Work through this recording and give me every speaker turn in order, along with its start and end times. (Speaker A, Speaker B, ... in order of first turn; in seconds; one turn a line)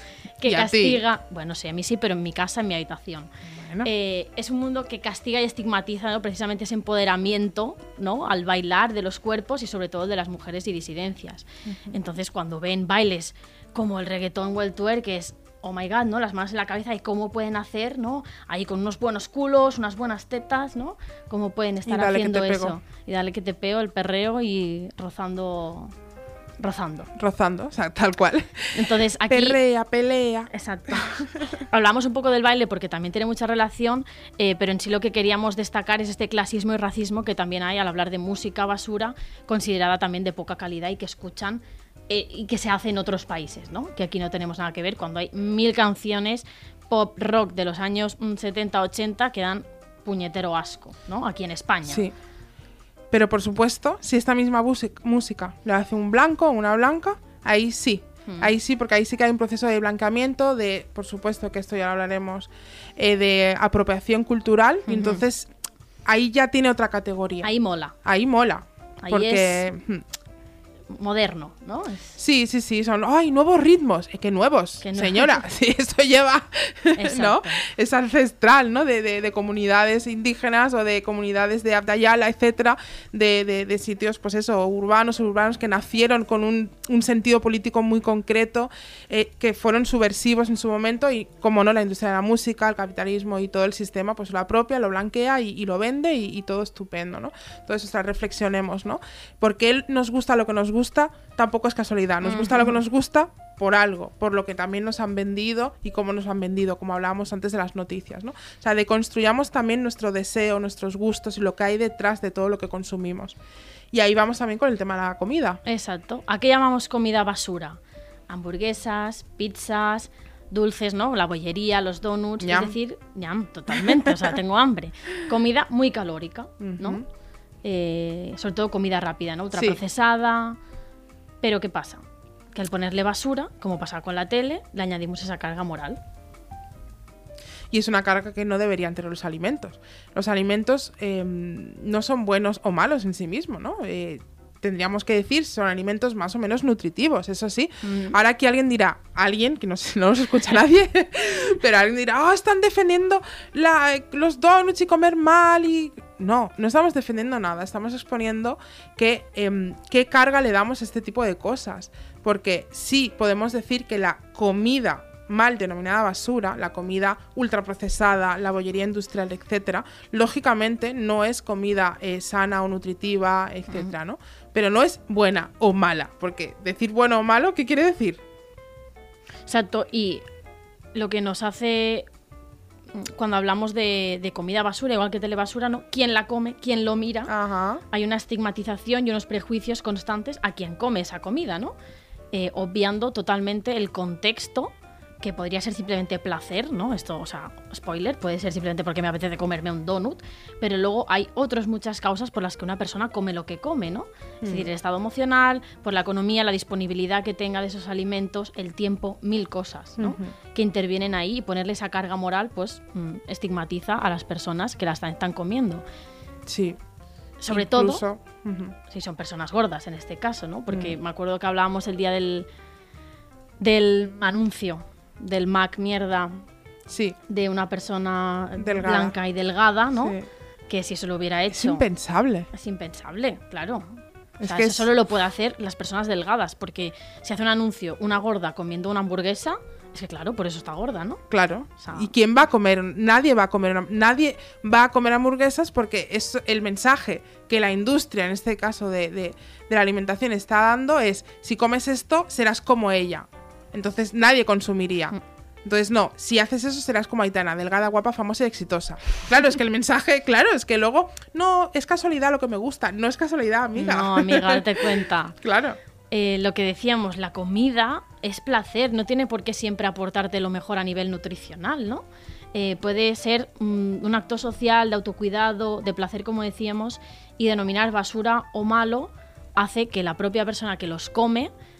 Speaker A: 0.4-3.3
Speaker B: 0.4-1.0
Speaker B: 3.5-3.9
Speaker A: 3.8-25.9
Speaker B: 11.7-11.9
Speaker B: 21.8-22.8
Speaker A: 26.6-27.1
Speaker B: 27.1-31.0
Speaker A: 28.7-29.6
Speaker A: 30.5-52.0
Speaker B: 51.9-52.1
Speaker B: 53.1-65.5
Speaker A: 64.9-65.2
Speaker B: 66.0-67.5
Speaker A: 67.4-67.9
Speaker B: 68.0-70.0
Speaker A: 69.0-69.7
Speaker A: 70.9-72.2
Speaker B: 72.2-113.4
Speaker A: 74.8-75.4
Speaker A: 76.9-77.6
Speaker A: 102.2-102.8
Speaker B: 113.9-115.6
Speaker A: 115.7-127.0
Speaker B: 122.4-122.8
Speaker B: 123.8-124.1
Speaker B: 126.6-127.0
Speaker A: 127.6-130.6
Speaker B: 129.5-129.8
Speaker A: 131.4-136.0
Speaker B: 137.7-178.2
Speaker A: 147.8-148.2
Speaker A: 179.4-180.2
Speaker A: 180.9-182.1
Speaker A: 182.9-187.3
Speaker B: 187.3-187.8
Speaker A: 187.9-191.7
Speaker A: 192.3-215.8
Speaker B: 204.4-204.7
Speaker B: 210.0-210.3
Speaker B: 216.4-216.8
Speaker A: 217.4-218.0
Speaker B: 217.5-218.8
Speaker A: 218.9-222.5
Speaker B: 220.7-221.0
Speaker A: 223.6-226.4
Speaker B: 226.9-227.2
Speaker A: 227.3-230.2
Speaker B: 228.6-229.1
Speaker B: 230.0-230.3
Speaker A: 230.7-231.8
Speaker B: 231.5-232.5
Speaker A: 232.5-241.2
Speaker B: 234.4-234.9
Speaker B: 241.3-265.8
Speaker A: 241.8-242.1
Speaker A: 263.8-265.4
Speaker A: 266.1-281.5